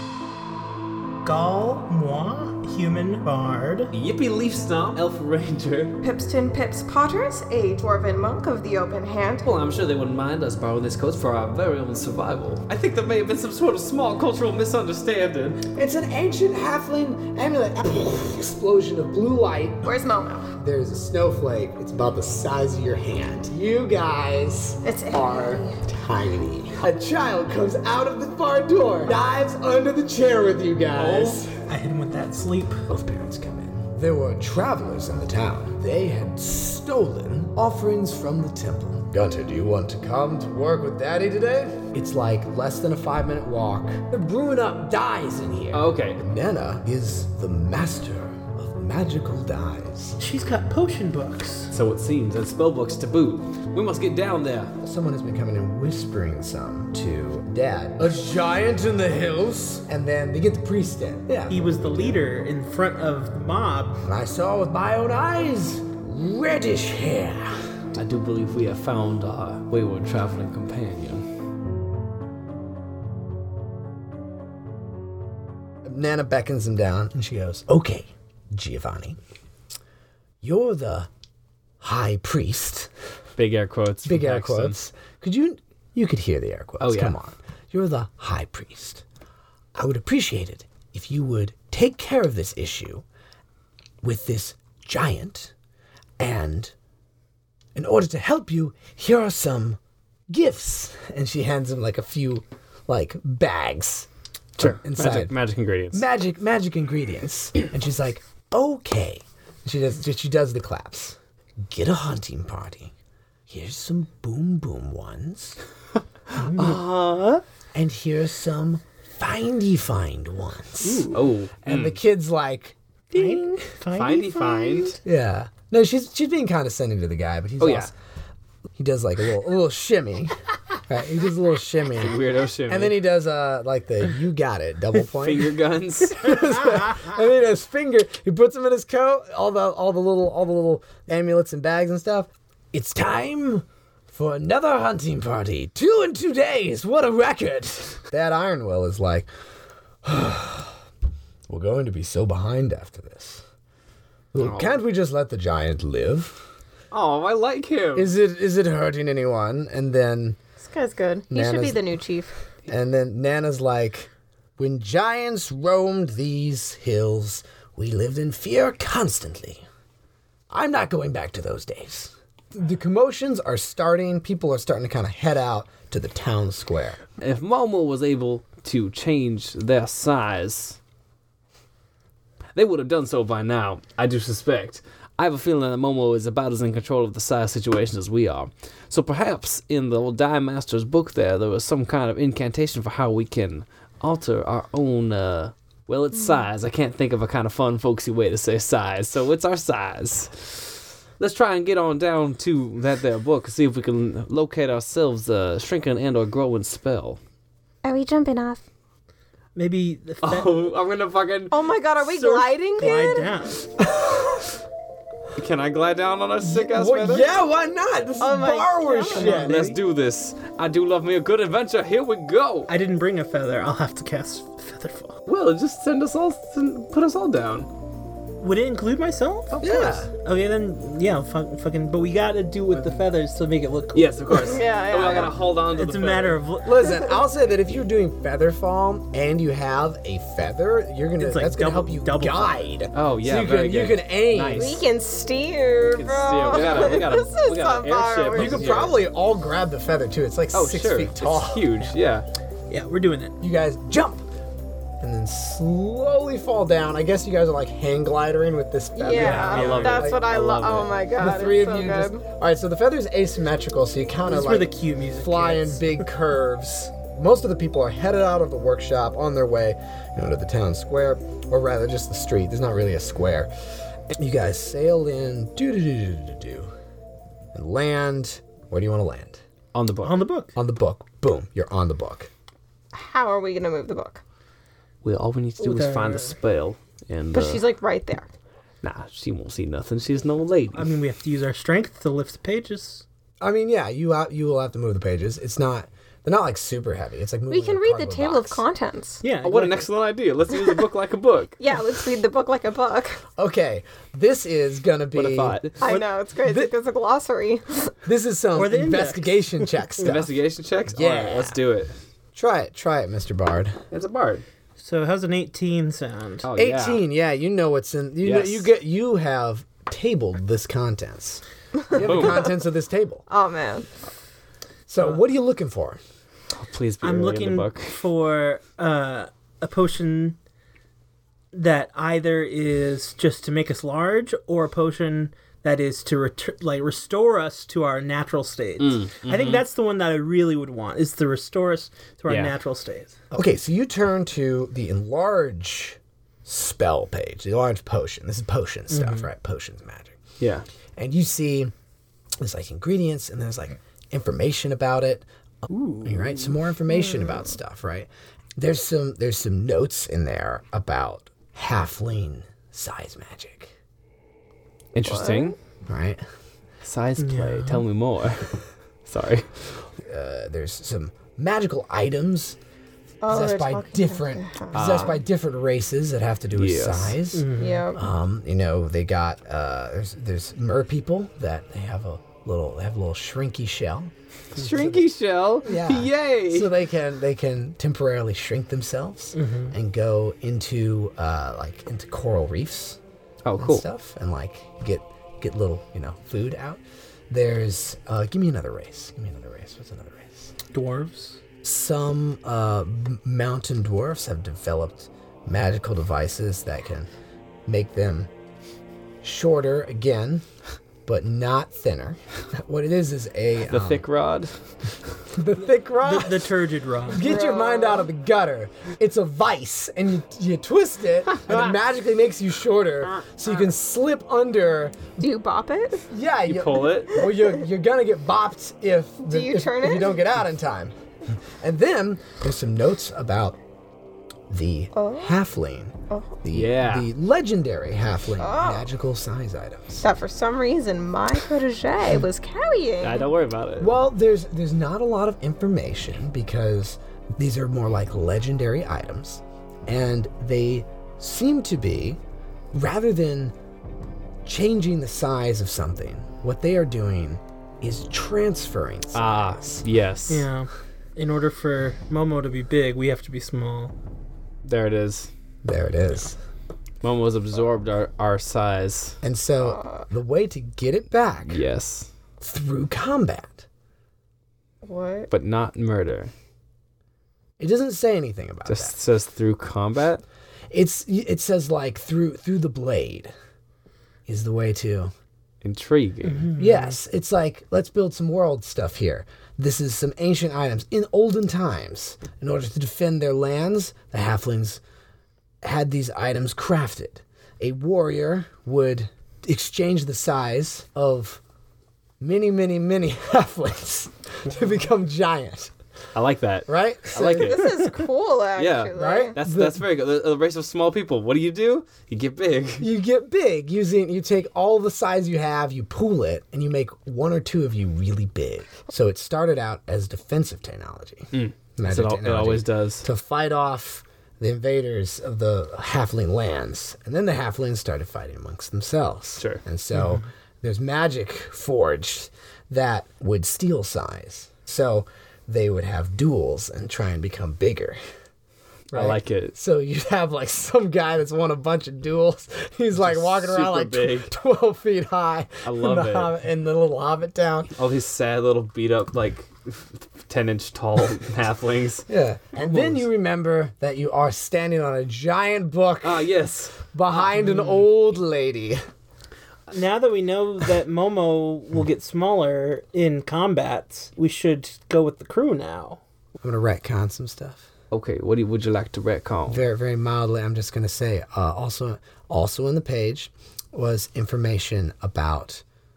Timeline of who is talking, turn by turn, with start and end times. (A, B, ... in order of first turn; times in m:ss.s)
0:01.2-0:03.9 A
0:03.9-0:06.0 B
0:06.0-0:09.5 C
0:09.4-0:15.6 B
0:15.7-0:19.9 D
0:19.8-0:20.5 C
0:20.6-0:31.5 D
0:24.8-0:25.8 C
0:31.0-0:31.5 B
0:31.7-0:32.8 A
0:32.9-0:50.2 D
0:45.7-0:46.2 B
0:50.2-0:51.7 A
0:51.7-0:54.7 B
0:54.8-1:02.2 D
1:01.5-1:04.0 A
1:04.0-1:07.8 D
1:07.9-1:11.3 B
1:15.8-1:19.2 D
1:20.4-1:21.1 D
1:21.8-1:22.9 D
1:23.4-1:24.8 B
1:24.0-1:29.0 D
1:26.8-1:27.2 B
1:29.8-1:33.0 D
1:34.0-1:35.5 D
1:36.2-1:36.7 D
1:37.8-1:39.8 D
1:40.3-1:45.3 D
1:44.6-1:46.0 B
1:45.9-1:52.9 D
1:53.5-1:55.6 D
1:56.4-1:57.2 A
1:56.6-1:57.4 B
1:57.7-2:01.1 D
2:00.8-2:01.3 A
2:01.1-2:02.0 B
2:01.6-2:03.7 D
2:03.2-2:05.0 A
2:03.9-2:05.0 B
2:05.0-2:07.9 D
2:07.6-2:07.9 B
2:08.8-2:12.2 D
2:12.0-2:13.0 B
2:12.7-2:15.6 D
2:15.1-2:16.6 B
2:16.1-2:29.3 D
2:30.0-2:30.8 D
2:31.5-2:33.4 D
2:34.3-2:36.4 D
2:34.4-2:34.8 B
2:36.9-2:38.1 B
2:38.0-2:40.4 D
2:40.6-2:42.3 C
2:41.3-2:41.8 D
2:42.7-2:49.6 D
2:50.5-2:57.0 D
2:57.2-3:00.8 B
3:02.6-3:27.2 B
3:27.8-3:28.6 C
3:29.6-3:30.5 A
3:30.2-3:32.5 B
3:31.5-3:33.4 C
3:32.8-3:33.6 A
3:33.8-3:34.4 D
3:35.4-3:37.3 B
3:36.4-3:39.6 D
3:38.2-3:39.4 C
3:39.1-3:39.8 A
3:39.2-3:42.7 B
3:42.7-3:45.2 A
3:45.3-3:47.7 B
3:48.4-3:54.6 A
3:49.6-3:50.1 D
3:53.9-3:56.4 B
3:54.3-3:55.4 C
3:55.7-3:57.1 A
3:56.6-4:04.8 D
4:01.2-4:02.7 A
4:02.9-4:04.8 B
4:04.6-4:08.9 C
4:05.8-4:09.0 B
4:06.6-4:07.0 D
4:08.3-4:11.7 D
4:10.5-4:12.3 B
4:12.7-4:13.4 A
4:13.4-4:14.3 D
4:15.0-4:20.3 D
4:19.0-4:22.2 C
4:19.1-4:20.9 B
4:19.1-4:20.1 A
4:21.2-4:33.5 D
4:24.3-4:26.0 A
4:34.1-4:36.7 D
4:37.5-4:39.4 D
4:39.7-4:40.2 B
4:40.0-4:40.5 A
4:40.6-4:42.3 D
4:42.9-4:44.2 C
4:45.0-4:47.6 B
4:45.6-4:46.3 A
4:47.3-4:48.3 C
4:48.8-4:50.9 B
4:50.7-4:53.0 A
4:53.4-4:58.6 D
4:57.5-4:59.2 C
4:59.2-4:59.9 A
4:59.4-5:01.6 B
5:01.6-5:03.2 C
5:03.4-5:05.6 D
5:05.1-5:06.0 B
5:05.8-5:07.9 C
5:08.0-5:10.3 D
5:08.6-5:10.1 A
5:10.0-5:12.0 B
5:10.9-5:11.6 D
5:12.4-5:13.8 D
5:13.9-5:14.4 B
5:14.8-5:16.5 A
5:16.4-5:17.0 B
5:16.6-5:23.2 D
5:18.2-5:18.7 B
5:21.9-5:22.3 C
5:22.0-5:22.5 B
5:23.3-5:23.9 C
5:24.9-5:26.0 D
5:26.6-5:28.0 B
5:27.0-5:30.4 A
5:31.5-5:43.1 A
5:38.8-5:39.6 B
5:42.3-5:42.5 B
5:43.3-5:50.2 D
5:48.9-5:49.3 A
5:50.4-5:50.6 B
5:51.0-5:51.7 D
5:52.4-6:03.7 D
5:55.7-5:56.5 A
5:57.0-5:57.4 C
6:05.0-6:05.6 B
6:05.0-6:05.6 C
6:05.9-6:06.2 D
6:06.8-6:09.5 B
6:07.2-6:07.8 A
6:10.1-6:12.6 D
6:13.2-6:15.2 C
6:13.3-6:24.1 D
6:14.7-6:15.2 B
6:16.5-6:17.2 B
6:17.3-6:17.8 A
6:17.6-6:18.0 C
6:24.6-6:26.7 B
6:24.7-6:25.0 D
6:25.6-6:33.0 D
6:29.4-6:29.7 A
6:33.4-6:33.8 B
6:33.6-6:40.5 D
6:40.7-6:41.4 A
6:41.6-6:47.1 D
6:47.7-6:48.3 D
6:49.2-6:50.4 D
6:51.0-6:54.0 D
6:53.7-6:54.5 B
6:55.3-6:56.5 D
6:56.0-6:57.2 A
6:57.1-7:05.0 D
6:57.2-6:58.1 C
7:05.2-7:06.1 C
7:06.1-7:10.9 D
7:06.5-7:07.2 B
7:09.2-7:10.2 C
7:11.6-7:13.6 D
7:14.5-7:20.0 D
7:14.9-7:15.3 C
7:16.1-7:16.4 C
7:16.5-7:17.1 B
7:18.4-7:18.9 C
7:20.0-7:23.3 C
7:23.0-7:23.9 B
7:23.8-7:32.2 D
7:32.7-7:33.6 D
7:34.4-7:39.8 D
7:39.2-7:40.5 B
7:40.3-7:43.9 A
7:44.6-7:45.3 B
7:45.6-7:46.4 D
7:47.0-7:49.2 B
7:49.2-7:51.6 D
7:49.6-7:50.0 C
7:51.5-7:52.1 B
7:52.4-7:53.6 D
7:54.8-7:55.3 C
7:55.3-7:56.3 B
7:57.6-7:59.0 D
7:58.7-8:00.2 B
8:00.7-8:03.3 D
8:04.3-8:05.1 D
8:05.6-8:06.5 B
8:06.3-8:07.0 A
8:06.6-8:14.8 D
8:15.6-8:21.4 D
8:22.2-8:25.7 D
8:26.2-8:27.9 B
8:26.7-8:27.7 D
8:27.4-8:29.4 C
8:28.6-8:32.9 B
8:29.0-8:29.8 D
8:32.8-8:58.0 D
8:41.3-8:43.0 B
8:49.9-8:50.2 A
8:58.9-9:07.7 D
8:58.9-8:59.5 B
9:02.9-9:04.3 B
9:05.6-9:06.3 B
9:07.8-9:13.0 B
9:12.1-9:16.3 D
9:16.0-9:16.8 B
9:16.8-9:18.8 D
9:17.4-9:17.8 A
9:19.7-9:26.0 A
9:26.4-9:27.7 D
9:27.9-9:29.6 B
9:29.5-9:35.6 D